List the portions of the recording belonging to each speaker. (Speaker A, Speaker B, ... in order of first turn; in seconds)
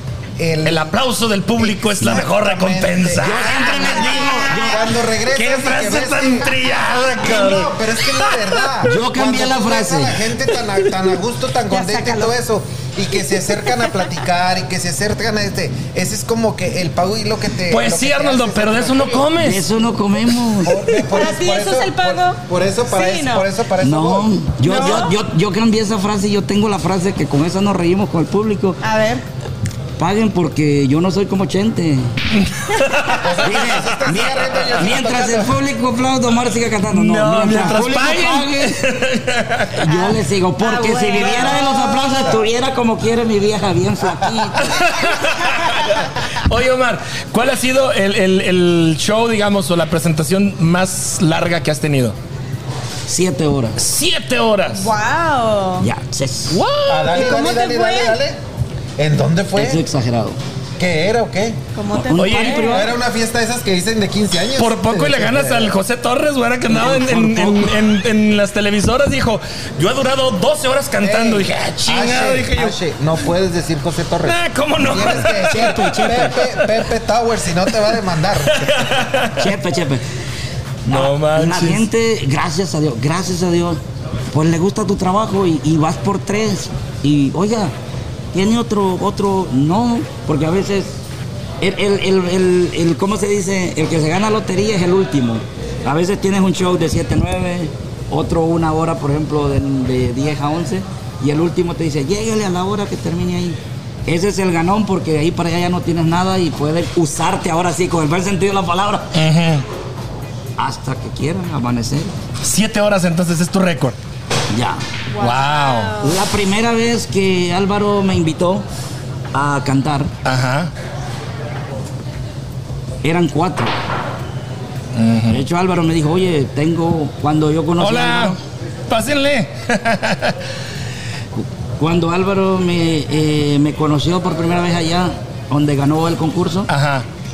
Speaker A: 0.4-0.9, 1.5-6.5, 7.2-19.3, 20.6-24.3, 33.2-35.6, 56.9-58.4, 59.0-59.8, 60.8-61.6, 62.6-65.7, 71.0-79.0
Speaker B: 0.6-4.6, 5.3-7.7, 17.7-19.6, 32.7-33.2, 36.9-39.7, 44.6-52.1, 53.8-54.9, 56.5-57.1, 62.1-62.7, 64.5-72.7, 74.2-76.7, 78.5-79.4, 80.9-81.8, 109.1-109.6, 112.4-114.0, 115.2-115.9, 120.2-120.7, 124.9-125.4, 127.8-128.3, 128.9-130.3, 136.7-137.1
Speaker C: 3.2-4.8, 8.9-10.2, 19.4-20.7, 23.8-28.8, 30.0-32.1, 33.4-38.8, 39.7-44.9, 53.1-53.8, 55.8-56.6, 59.5-60.4, 61.9-62.9, 66.7-67.7, 79.4-80.0, 80.8-83.8, 84.3-87.7, 88.3-91.0, 91.6-109.1, 110.6-112.1, 114.5-114.8, 116.0-118.6, 119.3-120.1, 123.0-123.7, 125.3-128.4, 131.4-136.7
Speaker D: 11.7-12.3, 20.9-22.4, 22.9-23.4, 24.6-25.1, 28.8-29.2, 39.9-42.0, 54.7-55.9, 57.1-58.1, 61.8-62.9, 115.1-116.2